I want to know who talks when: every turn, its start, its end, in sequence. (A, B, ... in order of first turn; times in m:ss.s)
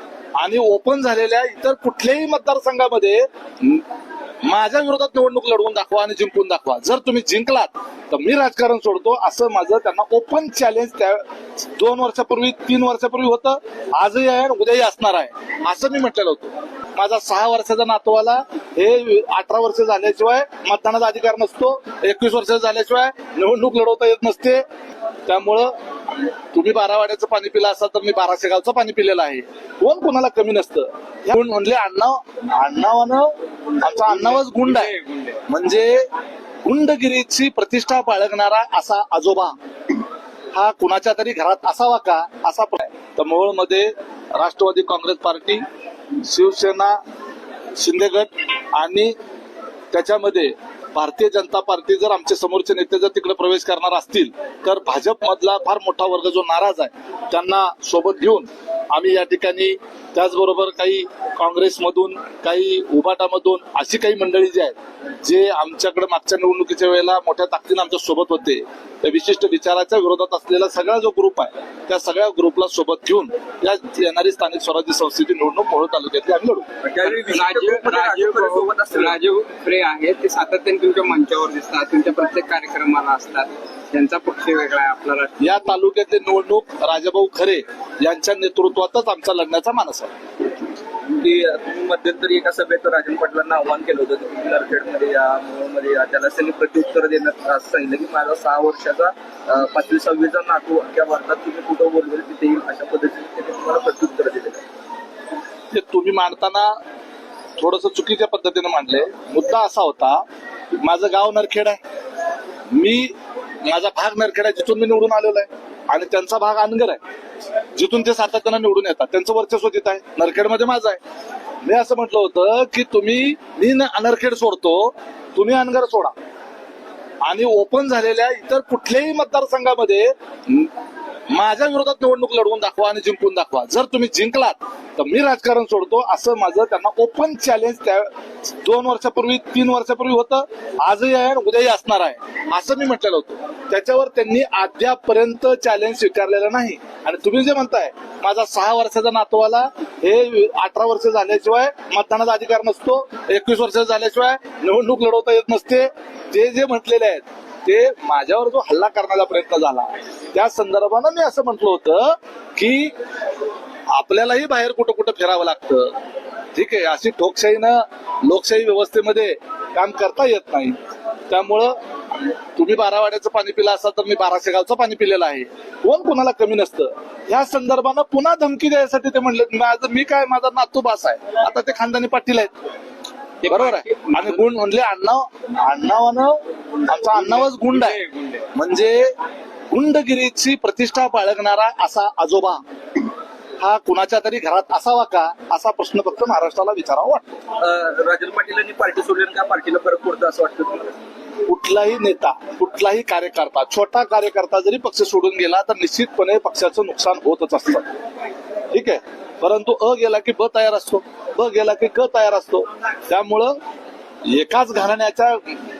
0:00.4-0:03.8 A
0:04.4-0:11.2 A
0:11.8-0:24.6 A
0:25.2-0:25.7 A
0:26.3-0:34.9 A
0:34.4-0:35.4 B
0:35.5-0:36.1 A
0:36.6-0:39.5 A
0:40.5-0:45.6 A
0:46.2-0:47.0 A
0:47.8-0:49.1 A
0:49.9-1:16.6 A
1:16.8-1:19.2 C
1:17.0-1:25.6 B
1:25.4-1:30.1 A
1:31.1-1:44.6 C
1:45.7-1:46.7 A
1:47.6-1:50.2 A
1:50.7-1:51.8 A
1:52.7-1:57.0 A
1:57.7-2:01.0 A
2:01.6-2:06.1 A
2:07.2-2:10.7 A
2:11.3-2:18.1 A
2:18.6-2:42.9 A
2:43.9-2:45.9 A
2:46.5-2:50.8 A
2:51.3-2:51.8 A
2:52.4-3:02.5 A
3:03.4-3:04.4 B
3:03.4-3:08.0 A
3:07.8-3:08.4 B
3:08.5-3:09.1 A
3:09.7-3:12.6 A
3:13.6-3:17.4 A
3:17.6-3:21.0 C
3:21.5-3:27.9 A
3:28.7-3:33.6 A
3:34.2-3:35.6 A